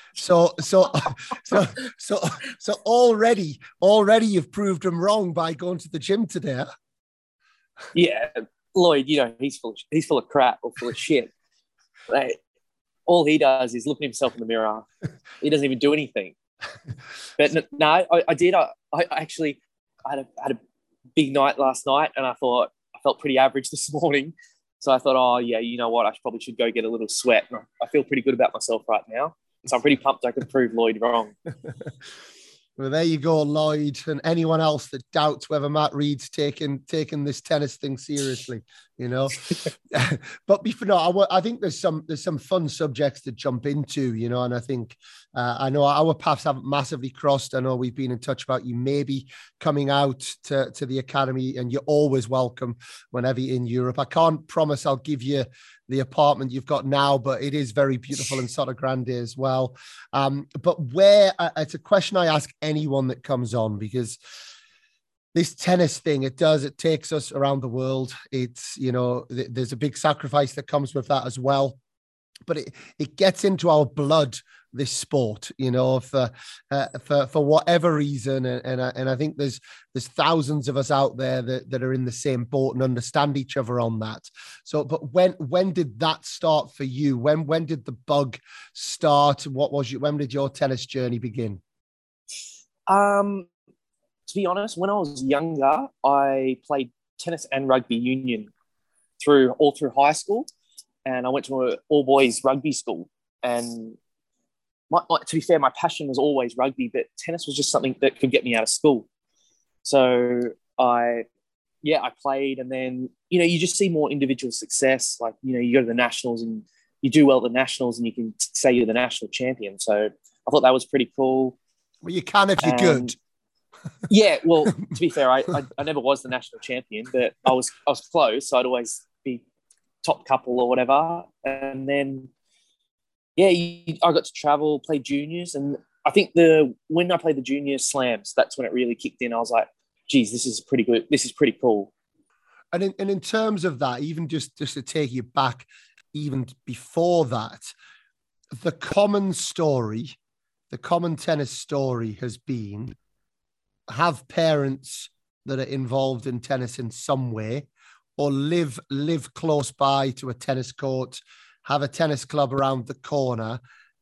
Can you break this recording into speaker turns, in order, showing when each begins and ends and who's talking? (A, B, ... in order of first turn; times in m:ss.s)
0:00.2-0:06.7 A
0:07.9-0:11.3 B
0:12.1-0:12.4 B
0:13.1-0:14.9 B
0:15.4-0:16.4 B
0:17.4-0:20.6 B
0:21.2-0:31.4 B
0:32.8-1:04.2 A
1:05.3-1:11.8 A
1:12.5-1:31.6 A
1:32.9-1:33.5 B
1:34.3-1:38.5 B
1:39.2-1:40.5 B
1:41.1-1:44.0 B
1:44.9-1:49.1 B
1:49.8-1:51.3 B
1:51.8-2:01.6 B
2:02.0-2:03.2 A
2:02.6-2:03.1 B
2:04.1-2:09.4 B
2:10.0-2:12.3 B
2:13.4-2:21.9 B
2:22.7-2:27.7 A
2:28.6-2:30.2 A
2:30.7-2:33.0 A
2:33.9-2:43.6 A